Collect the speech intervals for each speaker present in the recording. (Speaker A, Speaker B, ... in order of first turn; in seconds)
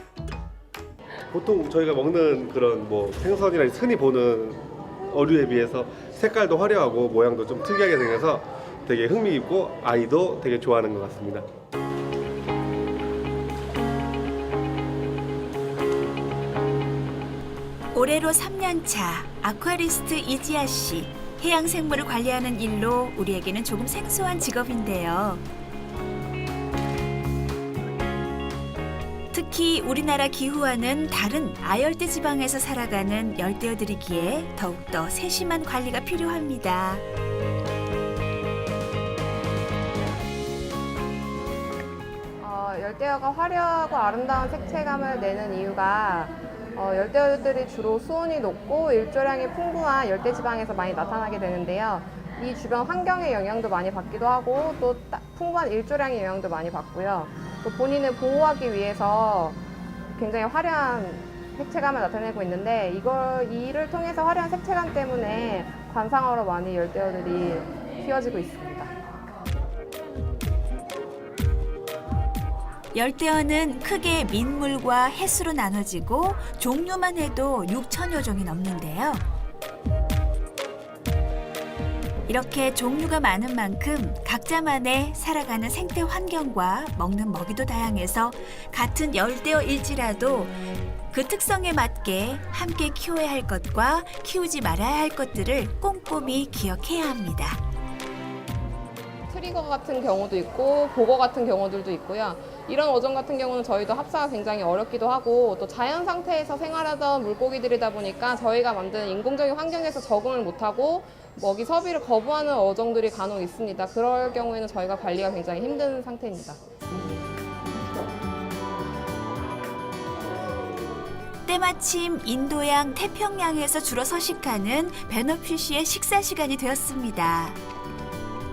Speaker A: 1.3-11.5
Speaker B: 17.9-25.4, 29.3-37.0, 72.9-79.2, 82.3-90.6, 91.1-97.6, 121.5-127.6
Speaker C: 42.4-59.6, 60.2-69.0, 99.3-116.6